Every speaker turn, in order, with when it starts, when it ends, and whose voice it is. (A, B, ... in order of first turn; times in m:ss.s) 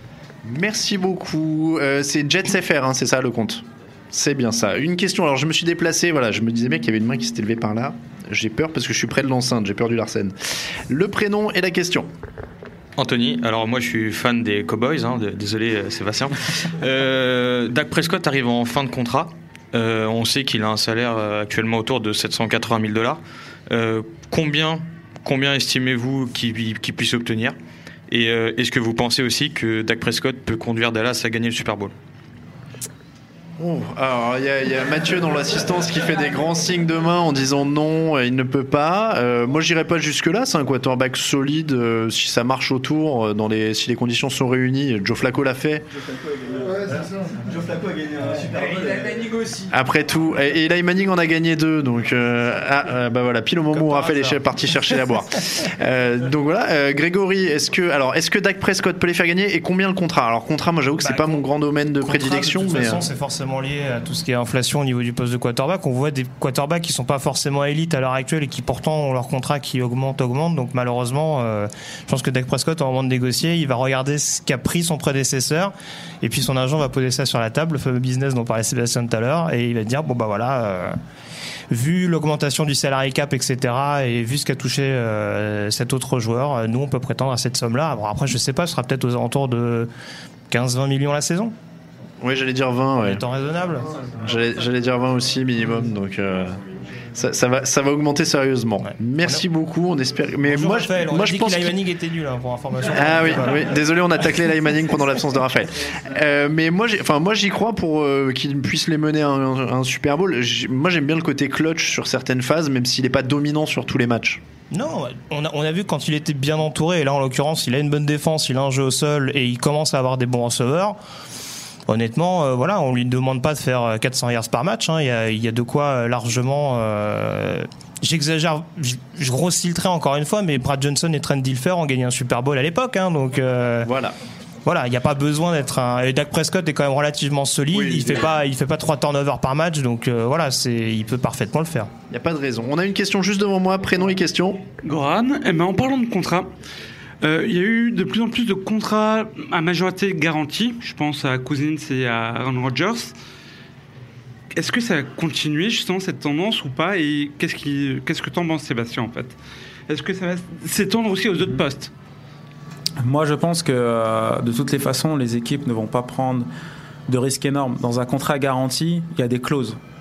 0:00.4-0:10.3 A
0:10.9-0:12.1 A
0:13.0-0:27.6 B
0:28.1-0:31.9 B
0:33.6-0:45.8 A
0:49.7-1:03.0 A
0:53.7-0:54.9 C
1:01.0-1:01.5 C
1:02.0-1:21.0 C
1:21.7-1:29.9 C
1:30.5-1:31.5 C
1:32.2-1:33.2 A
1:33.0-1:33.9 C
1:34.2-1:36.6 A
1:37.1-1:41.8 A
1:38.8-1:39.4 C
1:40.4-1:43.7 C
1:42.9-1:54.4 A
1:54.7-2:01.0 C
2:01.9-2:13.9 C
2:13.8-2:14.2 A
2:14.6-2:21.9 C
2:17.7-2:18.3 A
2:22.1-2:24.7 A
2:24.8-2:26.5 D
2:27.2-2:33.1 D
2:34.5-2:39.4 D
2:39.9-2:41.9 D
2:43.0-2:46.5 E
2:47.1-2:49.8 E